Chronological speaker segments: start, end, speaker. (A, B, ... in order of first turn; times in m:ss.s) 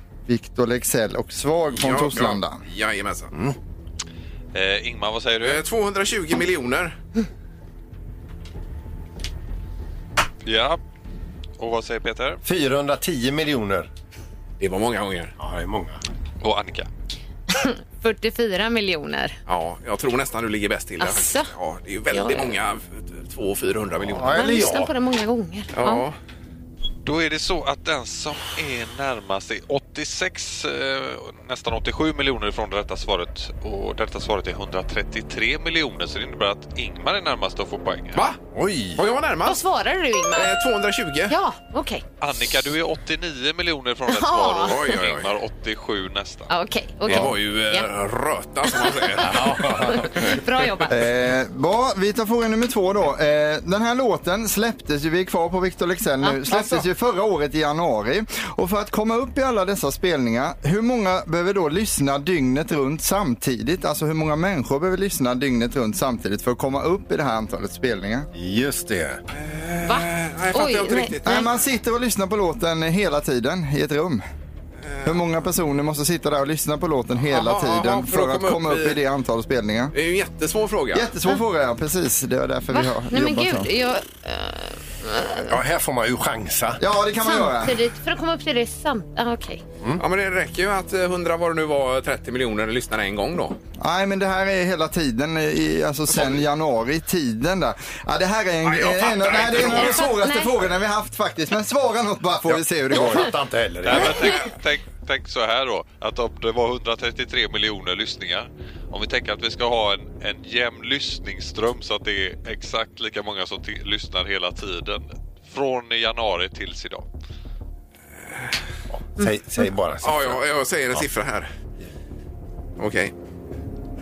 0:00.2-0:02.6 A
0:01.7-0:03.3 B
0:04.5-0:05.6 C
0:05.4-0:07.0 B
0:10.4-0:10.8 C
0:11.6-0:12.4 C
0:12.4-0:13.9 D
0:14.6-0:15.3 B
0:15.4-0:16.0 D
0:16.4-0:16.9 C
0:17.5-0:19.4 E
0:19.5-0:24.3 B
0:21.0-0:21.5 E
0:22.1-0:22.5 E
0:24.0-0:24.9 D
0:24.4-0:26.0 E
0:25.7-0:26.2 B
0:27.0-0:38.2 C
0:38.1-0:38.4 B
0:38.5-0:39.0 D
0:38.9-0:39.6 B
0:39.4-0:40.5 E
0:40.3-0:41.4 B
0:41.3-0:42.0 E
0:42.2-0:46.5 C
0:44.1-0:44.9 E
0:44.6-0:45.3 B
0:46.5-0:47.9 E
0:47.0-0:50.0 B
0:48.8-0:51.0 E
0:49.2-0:50.3 D
0:50.9-1:08.3 A
0:56.2-0:56.8 E
1:08.4-1:09.2 D
1:09.4-1:11.5 B
1:09.8-1:11.5 E
1:11.2-1:14.2 A
1:14.8-1:15.1 B
1:15.0-1:19.9 A
1:17.3-1:19.0 B
1:19.9-1:21.1 B
1:20.9-1:23.7 A
1:22.7-1:25.5 E
1:25.5-1:26.8 D
1:26.8-1:27.7 A
1:27.2-1:29.6 E
1:30.0-1:33.6 B
1:33.8-1:43.3 A
1:38.6-1:40.1 B
1:39.6-1:40.5 E
1:42.9-1:44.4 D
1:43.8-1:57.0 C
1:58.9-2:00.4 D
2:00.0-2:01.5 B
2:02.8-2:03.1 B